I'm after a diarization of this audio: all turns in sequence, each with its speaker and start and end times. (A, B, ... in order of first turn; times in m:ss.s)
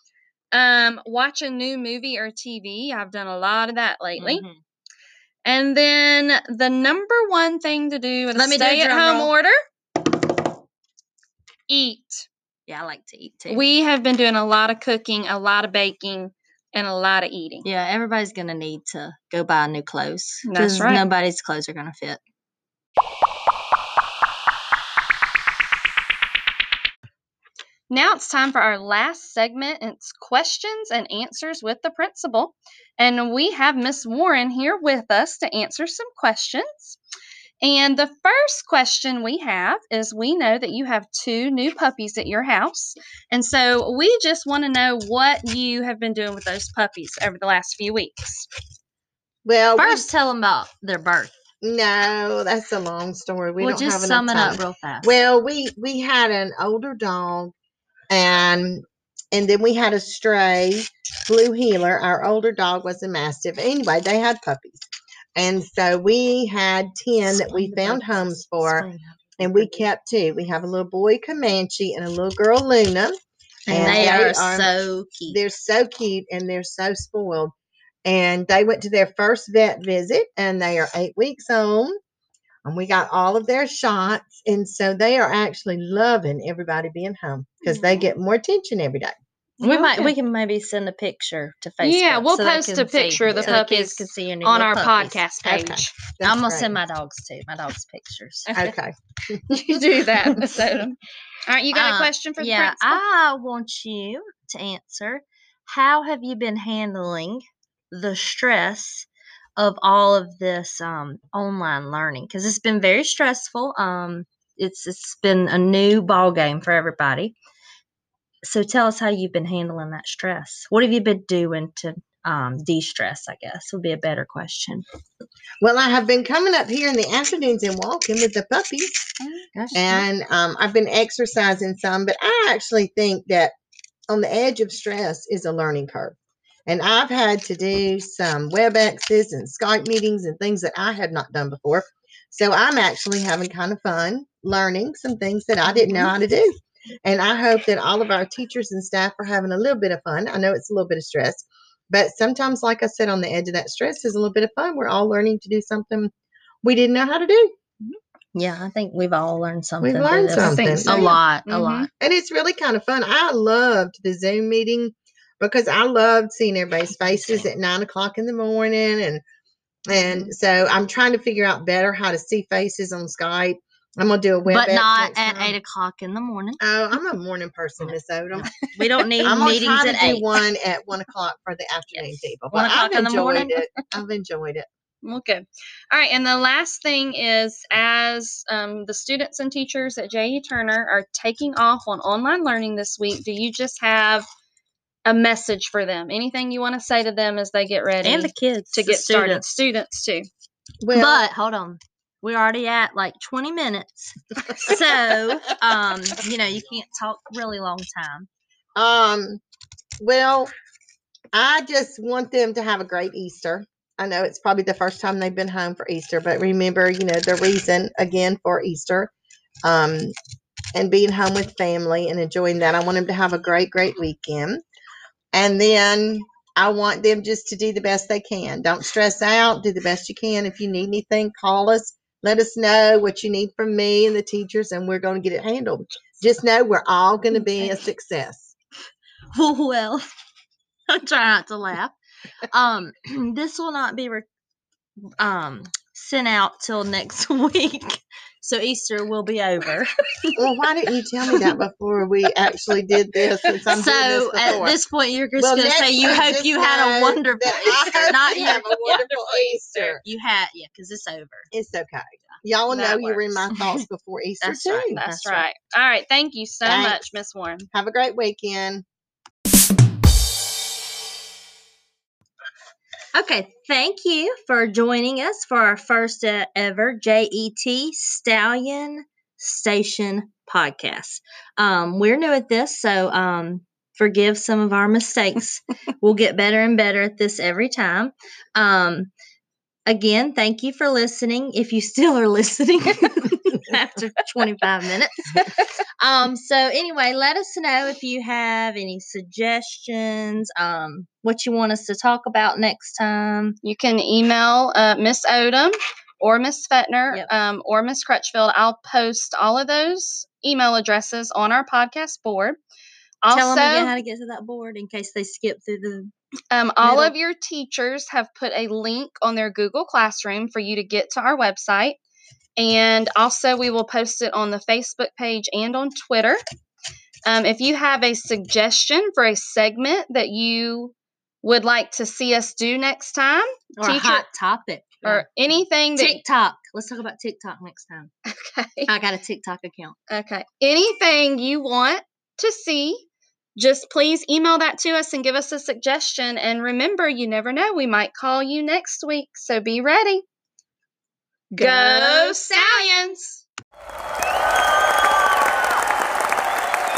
0:00.5-0:04.4 A
0:04.2-0:04.6 B
0:05.4-0:09.6 A
0:08.4-0:09.3 B
0:11.7-0:12.3 A
0:12.7-0:13.6 B
0:13.5-0:17.6 A
0:17.6-0:22.2 B
0:20.5-0:21.0 A
0:27.9-0:37.0 A
0:37.6-0:48.5 A
0:49.4-0:50.1 C
0:49.8-0:51.4 B
0:51.6-0:57.5 C
0:53.6-0:55.1 B
0:58.1-1:04.8 C
1:05.4-1:08.9 C
1:07.3-1:09.9 B
1:09.4-1:13.2 C
1:13.7-1:15.4 B
1:13.7-1:17.5 C
1:18.0-1:22.0 C
1:22.6-1:29.2 C
1:29.6-1:35.2 B
1:29.6-1:30.1 A
1:31.8-1:35.9 A
1:33.2-1:33.6 C
1:35.4-1:36.8 C
1:36.2-1:38.7 B
1:38.5-1:40.0 C
1:39.5-1:43.0 A
1:41.7-1:57.4 B
1:58.4-2:04.8 B
2:05.6-2:09.1 C
2:09.5-2:10.0 B
2:09.7-2:13.5 C
2:14.1-2:36.1 C
2:36.6-2:37.5 C
2:38.4-2:41.9 B
2:39.8-2:41.2 C
2:40.4-2:41.9 A
2:42.0-2:49.2 C
2:47.0-2:47.4 B
2:49.9-2:55.6 C
2:54.5-2:56.6 B
2:56.6-2:58.6 C
2:58.6-3:00.3 B
2:59.1-3:04.7 C
3:02.5-3:03.6 B
3:05.0-3:14.2 A
3:15.1-3:20.3 A
3:18.0-3:19.6 B
3:20.8-3:21.3 C
3:20.9-3:28.3 B
3:28.8-3:29.4 C
3:30.0-3:30.5 C
3:31.3-3:39.1 C
3:39.6-3:40.1 C
3:40.7-3:44.6 C
3:45.3-3:58.6 C
3:59.3-4:00.1 B
4:00.9-4:02.0 B
4:02.5-4:04.3 B
4:05.2-4:10.4 B
4:10.4-4:14.8 C
4:13.7-4:19.0 B
4:15.4-4:20.0 C
4:18.2-4:19.2 A
4:20.0-4:21.5 B
4:21.5-4:25.0 C
4:22.7-4:23.5 A
4:24.4-4:25.5 B
4:24.4-4:27.7 A
4:26.6-4:27.1 C
4:27.7-4:28.8 C
4:33.1-4:49.1 B
4:49.9-5:03.6 B
5:03.6-5:12.6 A
5:13.2-5:13.9 A
5:13.3-5:16.1 B
5:16.5-5:22.0 A
5:16.8-5:17.1 B
5:22.6-5:26.4 A
5:27.2-5:34.2 A
5:33.8-5:35.3 B
5:35.0-5:36.2 A
5:36.0-5:38.1 B
5:38.2-5:38.9 A
5:38.9-5:40.0 B
5:40.1-5:50.2 A
5:51.5-5:52.8 B
5:51.6-5:53.4 A